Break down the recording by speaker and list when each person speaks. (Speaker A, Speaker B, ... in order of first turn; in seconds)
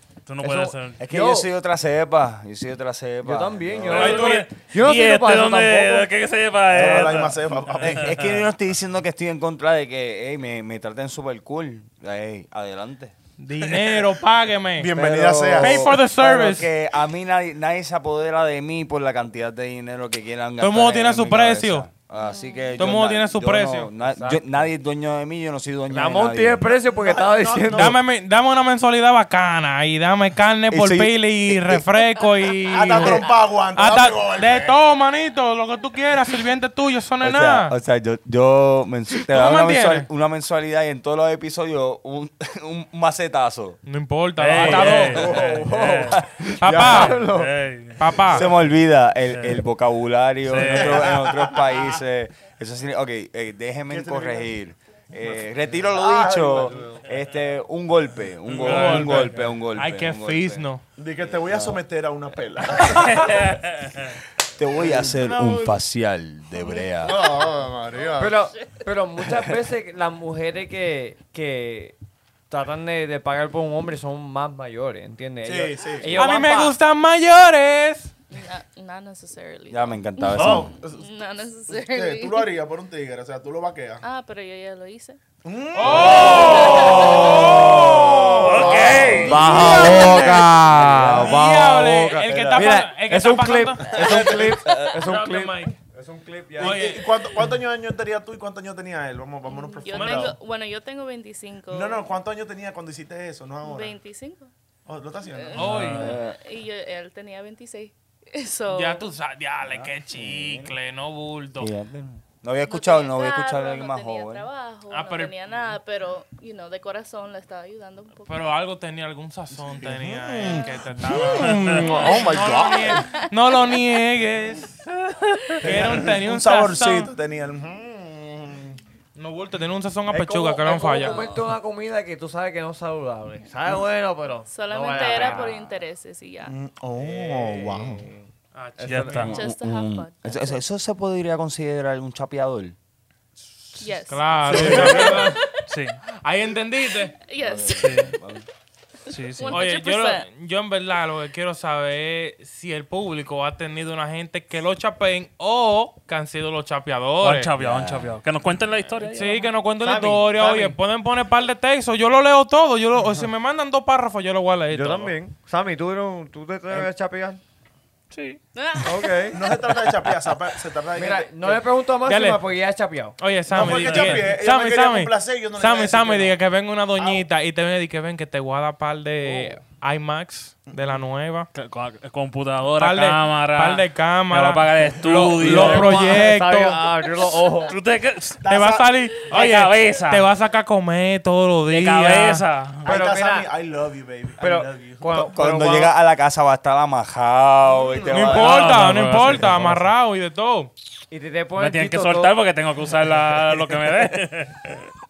Speaker A: 0.2-1.0, 3.9-8.1, 44.4-48.4, 49.3-49.6, 50.4-51.1, 58.5-59.5, 63.1-64.2, 80.4-80.6, 88.4-89.3, 105.6-106.0, 121.3-121.9, 138.9-139.3, 145.7-146.0, 147.8-148.1, 149.1-149.6, 157.2-159.4, 168.1-168.4, 181.5-186.2, 187.7-188.4, 189.2-190.2, 191.7-192.9, 198.4-199.7, 201.6-204.9
Speaker B: 0.4-1.5, 3.2-6.1, 24.1-24.6, 25.9-27.9, 44.6-47.5, 56.7-57.0, 68.2-72.0, 72.5-76.7, 86.0-88.4, 89.2-96.8, 130.1-135.8, 136.9-138.3, 138.8-139.3, 144.5-145.2, 159.8-160.8, 164.7-167.4, 168.8-169.6, 170.9-174.2, 179.2-179.5, 185.3-187.7, 192.8-193.5, 194.4-195.9, 201.1-202.3
Speaker C: 1.0-4.3, 7.8-13.1, 14.9-26.7, 37.2-43.8, 44.6-45.4, 46.1-46.4, 48.3-60.6, 61.2-61.8, 64.6-67.3, 79.7-80.7, 87.4-91.4, 92.3-92.7, 94.5-94.9, 105.8-106.4, 109.7-110.7, 111.6-114.5, 139.1-142.7, 147.4-148.4, 157.6-158.2, 195.1-199.5
Speaker D: 3.9-4.5, 13.4-14.9, 15.6-16.7, 20.6-21.9, 22.8-23.9, 27.7-37.8, 39.3-40.1, 43.8-45.2, 46.6-47.2, 48.0-48.5, 58.5-60.8, 63.0-63.2, 76.1-78.1, 85.7-90.5, 91.1-94.2, 94.9-95.7, 96.6-97.3, 99.9-100.3, 105.5-106.1, 108.7-111.7, 114.9-115.3, 118.3-127.1, 129.1-131.2, 138.5-139.3, 144.1-145.4, 146.2-147.1, 149.5-157.5, 159.1-165.1, 172.0-172.4, 173.2-181.5, 182.8-186.8, 188.4-192.4, 198.1-200.7
Speaker E: 6.7-8.4, 14.8-15.9, 26.8-27.9, 32.7-34.8, 46.6-47.2, 50.7-51.8, 53.9-54.5, 55.3-56.9, 61.0-63.5, 64.8-65.5, 67.0-68.3, 75.4-76.2, 80.4-81.1, 81.7-84.0, 85.4-90.4, 93.9-94.6, 96.6-100.3, 101.7-103.9, 104.8-105.7, 119.8-123.0, 125.6-128.8, 136.4-138.0, 144.4-145.3, 169.3-171.6, 173.5-176.3, 177.0-177.2, 188.4-188.9, 192.8-195.1, 197.7-198.4
Speaker F: 22.2-22.8, 78.3-82.5, 84.0-85.2, 99.5-102.0, 103.6-104.5, 105.3-109.1, 112.7-118.4, 122.9-123.2, 134.5-136.5, 139.3-140.6, 143.8-145.6, 147.0-148.4, 149.1-150.3, 159.1-159.5, 168.5-169.3